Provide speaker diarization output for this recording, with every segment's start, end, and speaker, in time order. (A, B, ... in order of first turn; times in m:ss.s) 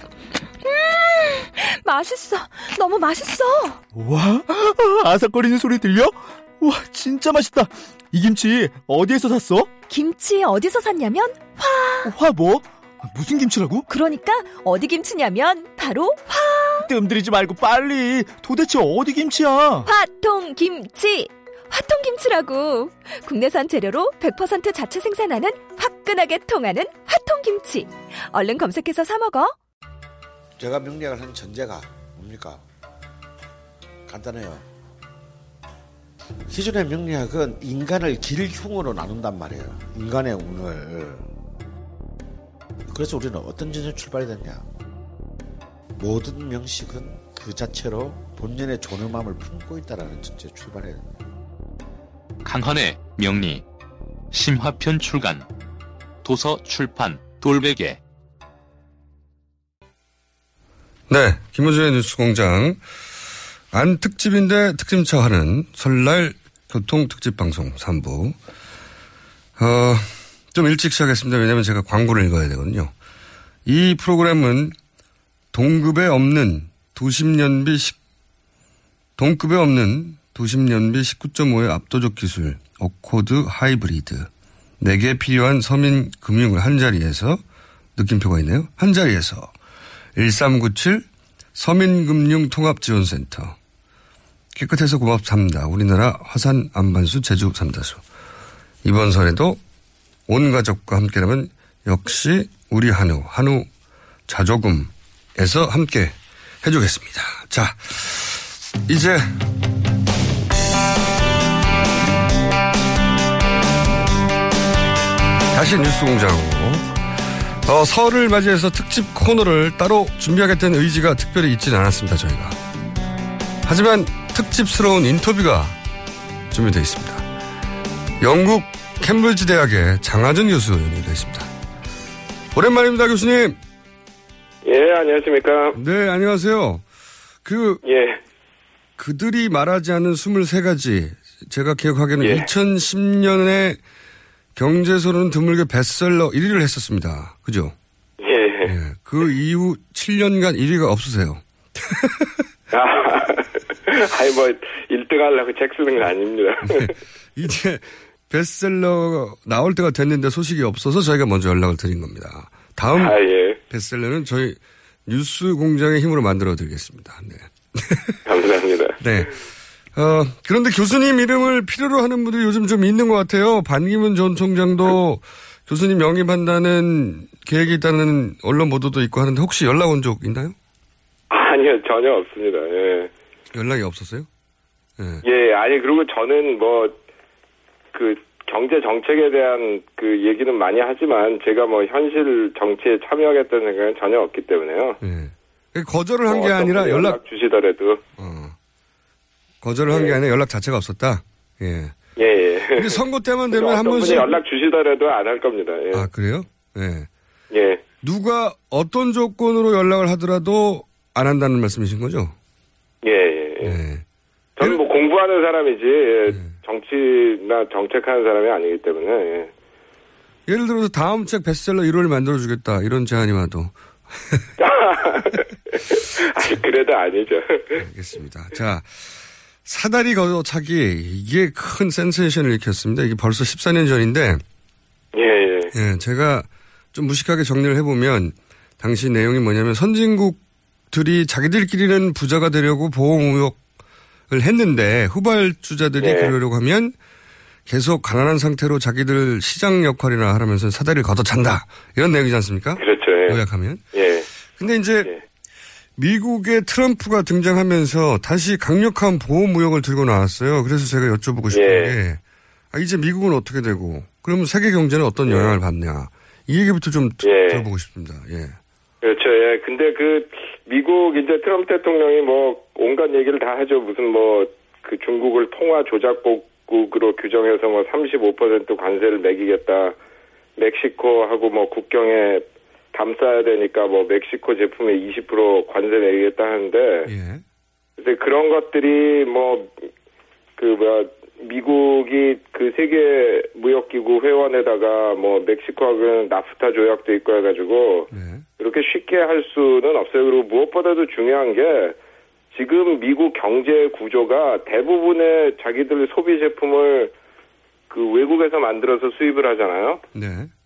0:00.6-0:03.8 A
0:04.0-0:09.7 B
0:09.9-0:12.1 A
0:12.0-0:13.8 B
0:13.9-0:16.9 A
0:16.8-0:19.9 B
0:19.9-0:29.5 A
0:30.6-0:32.6 C
0:34.1-0:34.6 C
0:36.5-0:41.3 C
0:42.9-0:44.7 C
0:46.0-0:51.3 C
0:52.4-0:53.6 D
0:54.3-0:55.5 D
0:56.2-0:58.0 D
1:01.1-1:02.8 E
1:03.7-1:08.4 E
1:09.6-1:12.9 E
1:13.7-1:14.8 E
1:15.5-1:18.0 E
1:19.2-1:24.3 E
1:24.8-1:27.4 E
1:28.0-1:29.5 E
1:30.2-1:33.6 E
1:34.6-1:38.0 E
1:38.8-1:39.6 E
1:40.3-1:43.7 E
1:44.3-1:49.4 E
1:55.5-1:56.9 E
1:57.6-2:02.6 E
2:03.6-2:05.8 E
2:06.5-2:07.2 E
2:08.2-2:11.5 E
2:12.5-2:13.6 E
2:14.6-2:15.8 F
2:15.7-2:16.8 E
2:17.4-2:17.8 E
2:17.8-2:18.2 F
2:19.0-2:23.8 E
2:22.2-2:22.5 F
2:24.6-2:27.7 E
2:28.2-2:28.7 F
2:28.7-2:32.4 E
2:32.7-2:36.9 F
2:36.6-2:48.2 E
2:43.0-2:43.6 F
2:48.3-2:49.0 F
2:49.0-2:49.3 E
2:50.0-3:00.6 E
3:01.3-3:03.1 F
3:03.5-3:04.3 E
3:05.0-3:05.2 E
3:05.2-3:07.0 F
3:07.9-3:15.0 F
3:15.0-3:17.2 E
3:16.3-3:18.0 F
3:18.2-3:18.6 E
3:19.6-3:21.9 E
3:19.9-3:20.2 F
3:22.2-3:26.1 F
3:22.7-3:24.4 E
3:25.9-3:27.1 E
3:27.5-3:27.8 F
3:28.0-3:32.4 E
3:33.0-3:33.8 F
3:33.6-3:34.0 E
3:34.6-3:39.5 F
3:40.5-3:44.5 E
3:44.6-3:47.8 F
3:47.8-3:54.4 E
3:55.1-3:55.7 F
3:55.7-4:00.4 E
4:00.9-4:03.6 E
4:04.3-4:07.0 E
4:06.0-4:06.3 F
4:07.7-4:13.8 E
4:12.8-4:13.4 F
4:13.9-4:14.3 F
4:14.6-4:15.1 E
4:16.0-4:22.2 E
4:21.5-4:22.0 F
4:22.7-4:28.6 E
4:25.3-4:25.6 F
4:27.2-4:27.6 F
4:29.0-4:40.0 F
4:40.6-4:47.1 F
4:47.1-4:47.4 E
4:48.0-4:49.8 F
4:50.6-5:02.0 F
4:58.1-4:58.4 E
5:02.5-5:07.1 F
5:07.9-5:10.0 F
5:10.1-5:10.5 E